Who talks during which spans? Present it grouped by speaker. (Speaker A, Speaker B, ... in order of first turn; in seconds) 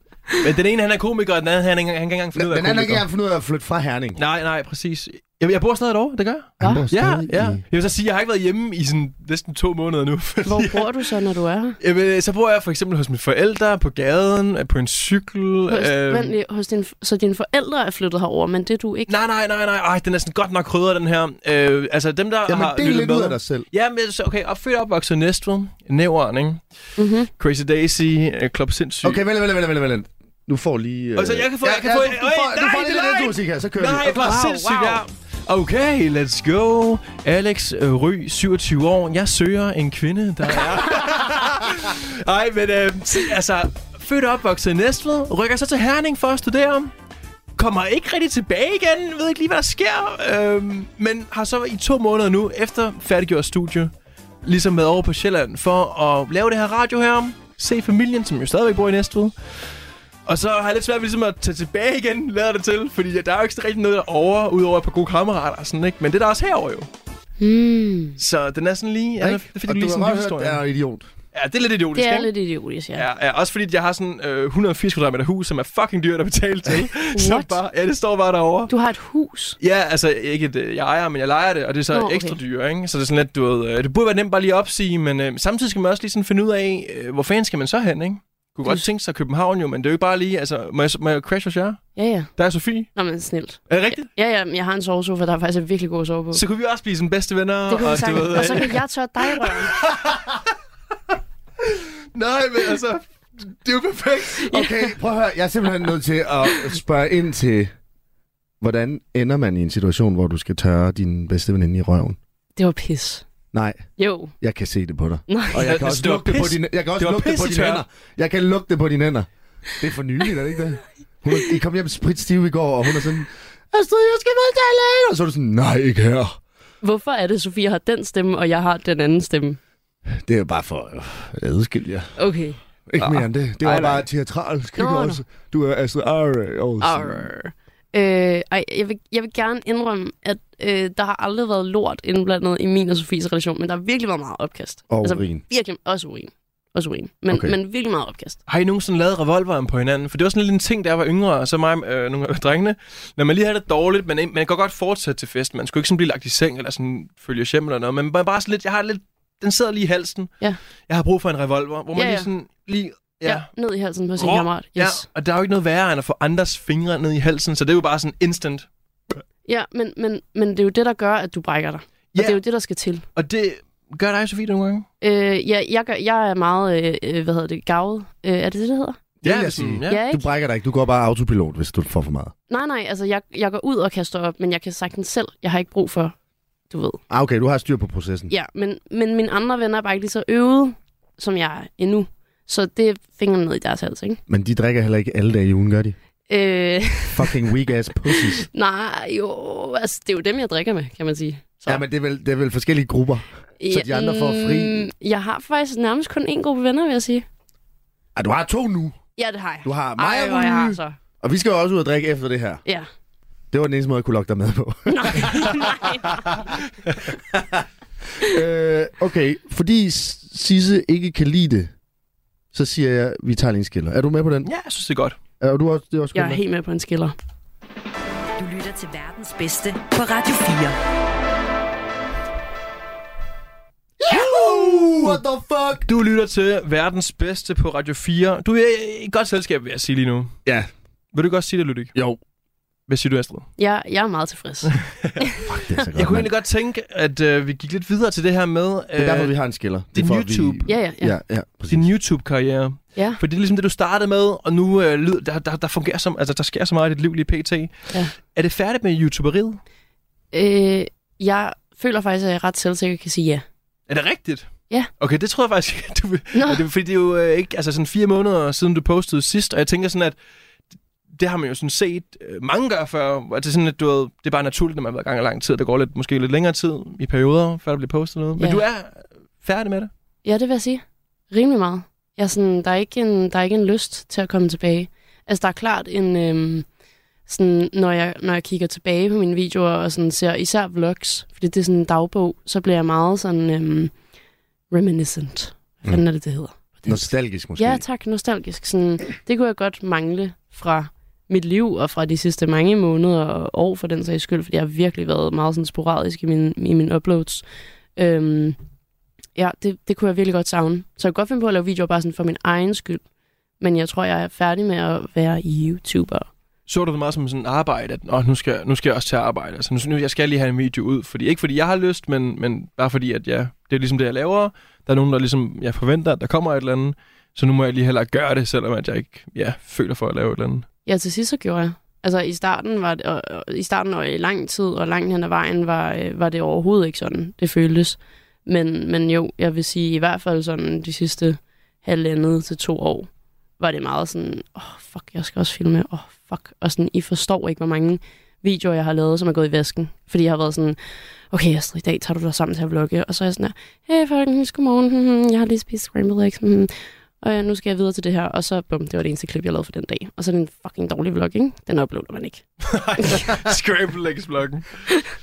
Speaker A: 0.4-3.0, 4.2-11.1, 11.8-16.4, 19.1-26.6, 27.3-29.2, 31.2-46.9, 47.6-53.9, 54.4-59.4, 60.3-66.9, 68.2-70.6, 71.3-72.3, 73.0-78.7, 79.6-93.0, 93.7-94.1, 96.3-100.4, 101.6-104.5, 115.6-117.8, 148.5-160.3, 160.9-163.5, 164.2-168.7, 173.2-174.9, 179.2-180.0, 224.4-225.2, 234.1-235.2, 235.9-240.3, 241.1-241.9, 242.9-243.5, 244.7-245.2, 245.9-249.3, 249.9-250.7, 251.7-259.6, 263.9-270.1, 271.1-279.9, 316.7-330.7, 362.6-364.9
Speaker B: 2.4-4.2, 6.6-7.6, 22.5-23.7, 29.0-34.8, 69.2-71.1, 104.5-107.7, 108.6-112.2, 113.5-113.9, 114.4-126.4, 130.1-132.1, 132.9-137.3, 144.9-145.4, 147.3-147.6, 179.2-182.3, 187.1-188.3, 194.3-196.0, 197.1-198.5, 201.7-204.9, 208.2-209.0, 209.6-212.6, 213.5-216.6, 217.1-217.7, 218.2-221.7, 222.5-224.5, 225.4-226.4, 234.0-235.9, 245.5-246.3, 249.0-251.9, 296.9-297.8
Speaker C: 6.6-6.9, 10.4-11.8, 15.7-19.1, 27.0-27.3, 34.6-35.0, 67.4-68.2, 72.0-73.1, 77.1-77.6, 78.7-79.6, 81.9-82.4, 92.0-92.3, 93.0-96.4, 97.7-99.7, 104.4-104.9, 112.6-113.2, 114.0-114.3, 115.3-115.7, 126.8-129.6, 132.2-134.0, 134.8-135.2, 136.8-148.4, 161.9-162.3, 163.2-165.1, 169.4-173.1, 175.0-179.0, 179.9-180.2, 182.5-186.2, 186.7-187.0, 188.3-194.2, 196.3-197.5, 198.1-201.8, 203.6-207.2, 209.2-211.0, 214.9-216.3, 226.1-227.2, 243.6-245.4, 250.7-251.2, 260.3-263.4, 266.3-266.6, 280.2-286.7, 287.3-293.9, 294.7-307.4, 308.0-308.6, 309.4-313.0, 313.6-316.3, 330.9-350.8, 351.3-362.4, 363.0-363.3
Speaker D: 228.4-230.8